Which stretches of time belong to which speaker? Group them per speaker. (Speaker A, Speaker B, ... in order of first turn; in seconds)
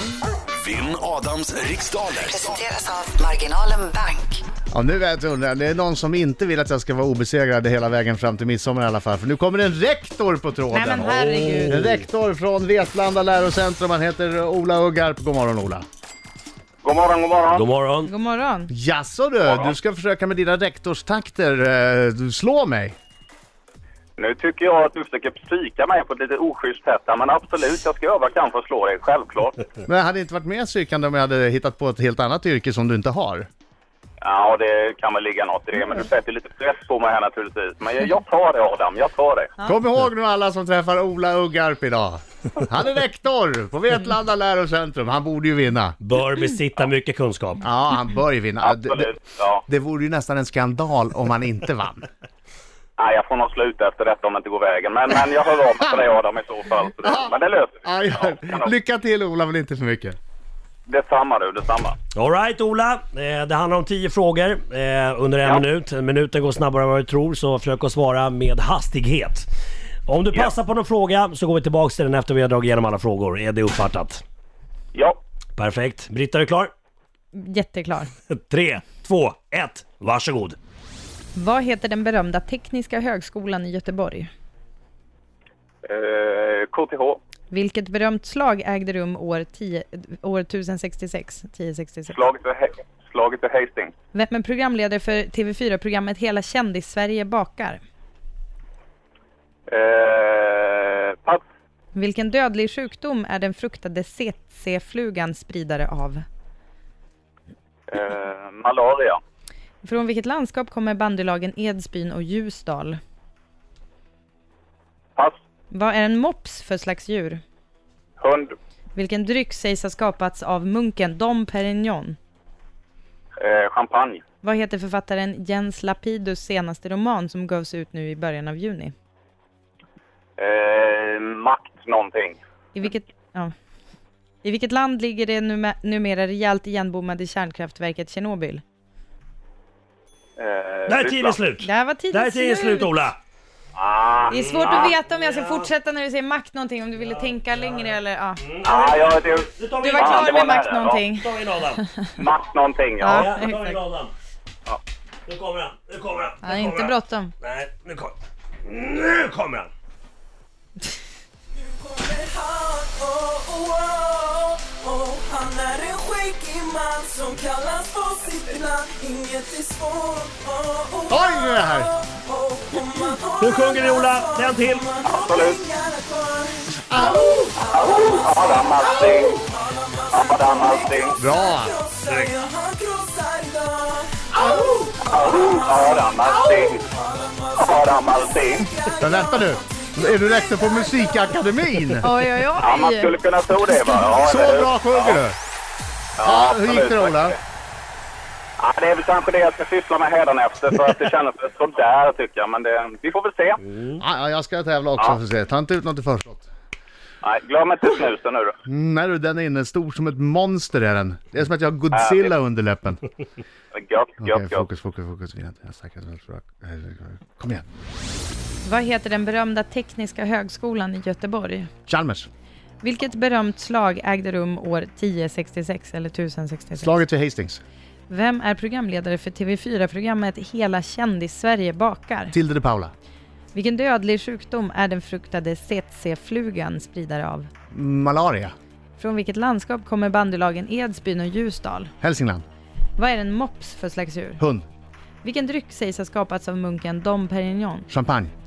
Speaker A: 0.6-2.7
Speaker B: 2.2-4.4
Speaker C: 4.7-15.9, 18.7-23.0, 29.9-33.5, 39.6-46.0, 47.6-49.1, 49.7-52.1, 57.0-60.2, 171.1-171.9, 176.9-177.3, 181.2-181.7, 189.0-192.1, 194.2-195.4, 196.2-197.4, 204.0-206.5, 208.7-213.0, 214.2-217.7, 221.9-222.3, 226.8-227.6, 232.3-232.9, 237.7-238.5, 242.0-242.4, 244.4-244.7, 247.9-248.3
Speaker D: 10.7-11.8, 18.1-18.7, 77.3-78.1, 81.3-84.3, 87.5-92.2, 94.1-97.8, 102.0-106.2, 109.8-113.0, 115.7-117.4, 119.0-122.2, 124.4-128.9, 132.7-133.5, 134.4-138.6, 141.6-142.9, 144.3-148.4, 149.8-152.1, 153.0-153.8, 156.4-157.3, 192.0-193.1, 218.7-221.7, 222.8-227.0, 228.1-232.3, 233.5-237.5, 239.0-241.9, 243.0-244.4, 245.2-247.9
Speaker E: 11.1-12.1, 17.5-18.1, 46.0-47.6, 62.1-69.5, 70.1-74.2, 75.6-76.7, 78.3-80.6, 140.9-143.2, 144.3-145.7, 147.0-150.3, 151.1-151.8, 153.1-154.1, 155.3-159.7, 173.4-174.9, 182.1-182.4
Speaker F: 16.8-17.7, 19.5-19.7, 24.2-29.6, 34.2-39.5, 48.6-49.6, 53.0-58.7, 60.9-62.0, 85.9-87.2, 92.1-93.9, 99.7-101.4, 107.9-109.2, 118.2-118.6, 123.4-124.2, 130.4-132.4, 140.4-141.4, 143.8-144.9, 148.6-151.0, 152.2-153.3, 175.1-175.6, 177.7-179.4, 180.1-181.2, 185.1-186.8, 187.6-188.7, 192.6-195.2, 196.2-197.4, 198.6-203.6, 207.2-208.6, 211.9-212.3, 213.7-214.7
Speaker G: 161.6-191.5